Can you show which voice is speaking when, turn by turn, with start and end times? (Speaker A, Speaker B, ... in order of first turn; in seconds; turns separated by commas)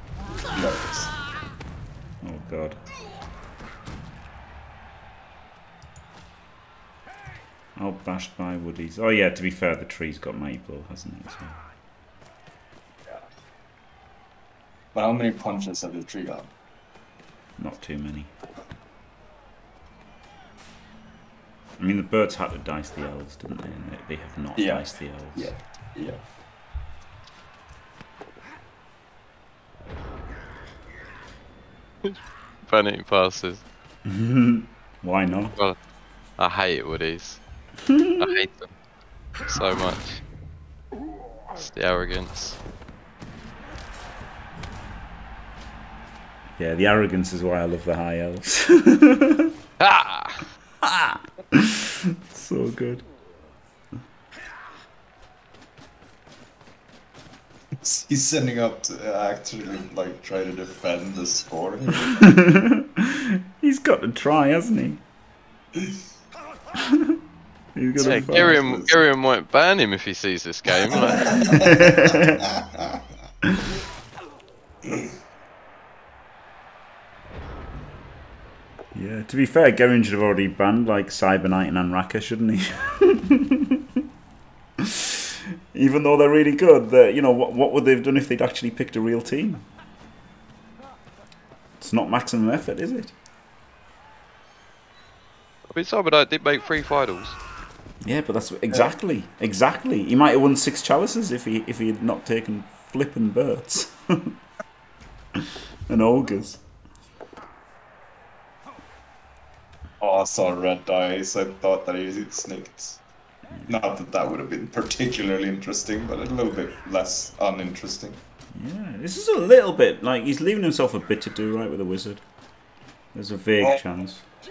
Speaker A: 0.5-1.1, Speaker B: 2.2-2.8, Speaker B: 7.8-11.6, Speaker A: 14.9-16.5, Speaker B: 17.6-18.3, Speaker B: 21.8-25.5, Speaker A: 24.6-26.2, Speaker C: 32.0-33.6, Speaker B: 34.0-35.5, Speaker C: 36.4-37.4, Speaker B: 37.9-38.3, Speaker C: 38.2-38.7, Speaker C: 39.5-40.2, Speaker C: 41.6-42.6, Speaker B: 46.6-49.5, Speaker C: 49.8-50.4, Speaker B: 50.8-53.1, Speaker A: 57.8-62.2, Speaker B: 62.1-65.0, Speaker B: 66.8-67.2, Speaker B: 67.8-68.7, Speaker A: 68.0-69.0, Speaker C: 68.0-71.5, Speaker A: 70.8-73.0, Speaker B: 71.5-72.5, Speaker A: 74.8-75.1, Speaker B: 78.9-83.8, Speaker B: 84.8-89.7, Speaker B: 91.8-93.1, Speaker C: 95.7-97.4, Speaker B: 98.0-104.3, Speaker B: 105.4-106.6, Speaker A: 110.0-113.0, Speaker A: 113.7-118.2, Speaker B: 118.5-122.2, Speaker B: 123.1-124.3